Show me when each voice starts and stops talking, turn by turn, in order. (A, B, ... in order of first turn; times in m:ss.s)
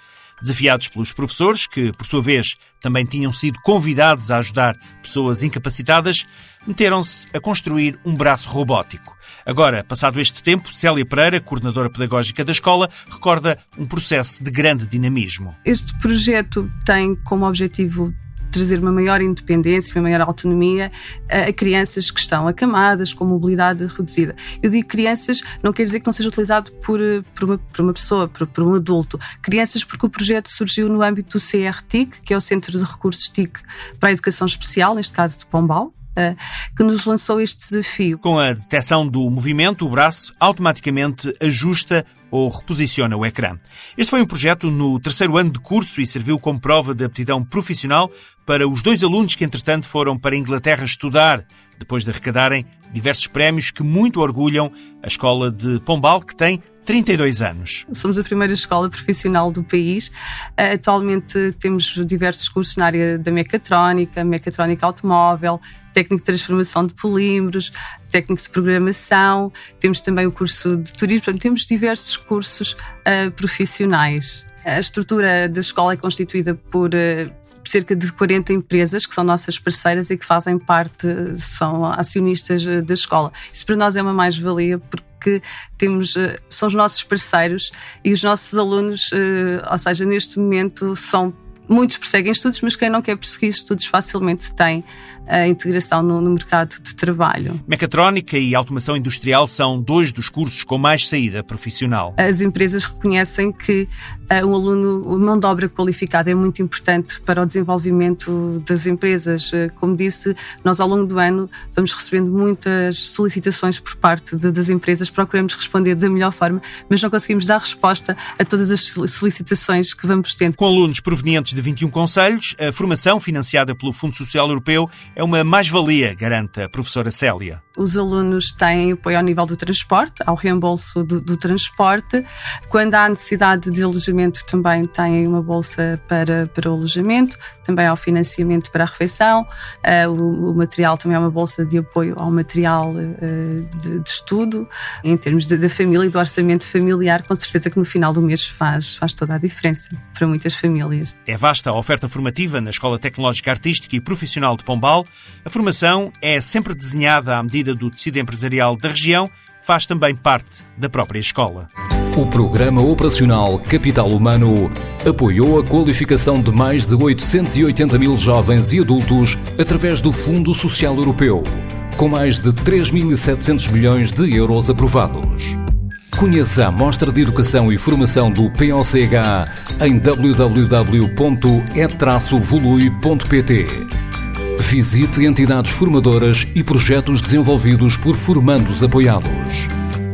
0:00.4-0:15.6 A
0:15.6-0:38.2 B
0:38.2-0:57.9 A
0:57.9-1:37.6 B
1:37.7-1:42.2 A
1:42.2-2:00.6 B
2:00.6-2:07.6 A
2:07.8-2:31.1 B
2:31.2-2:41.7 A
2:42.1-2:55.6 C
2:56.1-3:03.9 C
3:04.6-3:09.7 C